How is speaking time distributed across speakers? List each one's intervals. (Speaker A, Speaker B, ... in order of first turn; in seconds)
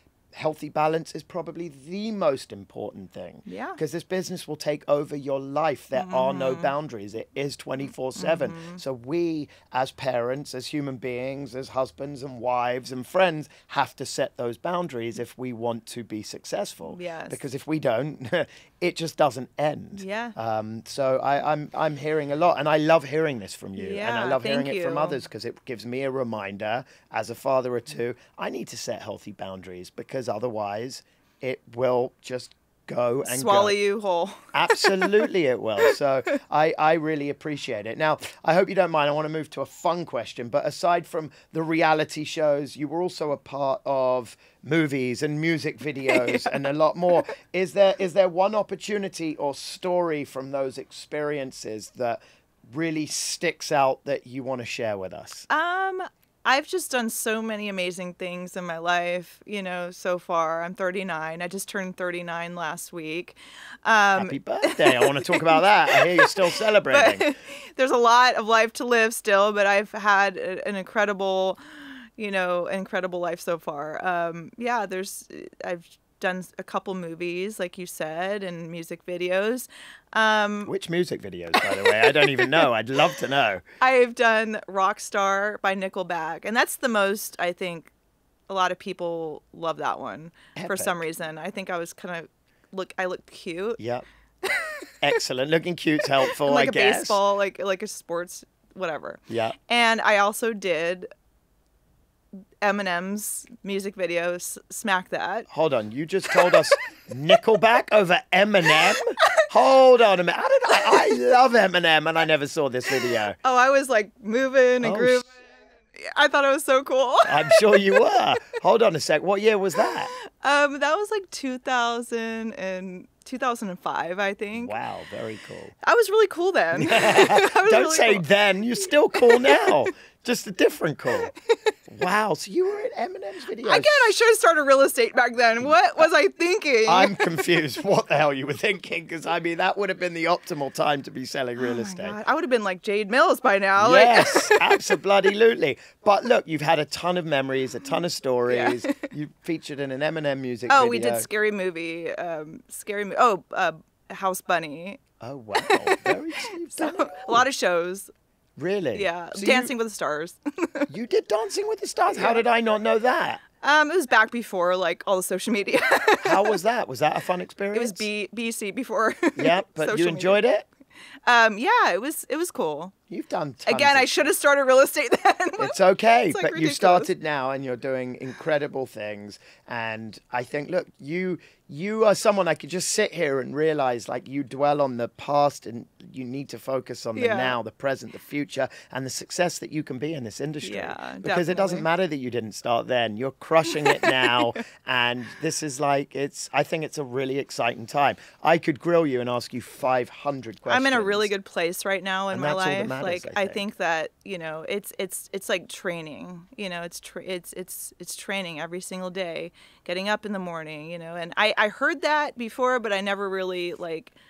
Speaker A: 0.3-33.8, 34.5-55.5, 64.1-67.2, 80.7-83.6, 90.5-91.0, 93.8-94.0, 95.0-97.2, 99.3-99.5, 105.5-113.3, 114.8-115.2, 117.2-120.1, 124.5-125.7, 126.7-131.3, 131.9-134.1, 135.6-136.1, 136.8-142.2, 143.8-151.3, 155.2-157.4, 158.6-159.7, 160.9-163.4, 166.2-168.1, 169.3-170.7, 173.1-174.3, 175.6-201.3, 202.3-203.6
Speaker B: 3.5-3.8, 5.9-6.7, 8.2-8.8, 16.8-17.4, 19.9-20.3, 23.8-25.2, 33.2-35.2, 46.1-46.6, 55.5-80.7, 81.5-82.6, 83.8-87.9, 88.5-93.8, 94.4-94.8, 96.2-101.1, 102.6-105.5, 106.3-106.7, 108.9-109.4, 110.7-111.1, 112.9-115.3, 116.0-118.1, 119.8-124.8, 125.8-128.2, 129.1-129.8, 133.6-137.3, 141.6-144.8, 148.5-149.1, 150.7-155.0, 155.6-158.1, 158.9-160.9, 162.1-162.4, 163.6-166.6, 167.7-170.4, 171.2-172.9, 173.7-175.8, 176.3-177.1, 187.2-187.6, 190.6-191.9, 193.8-194.6, 200.7-214.1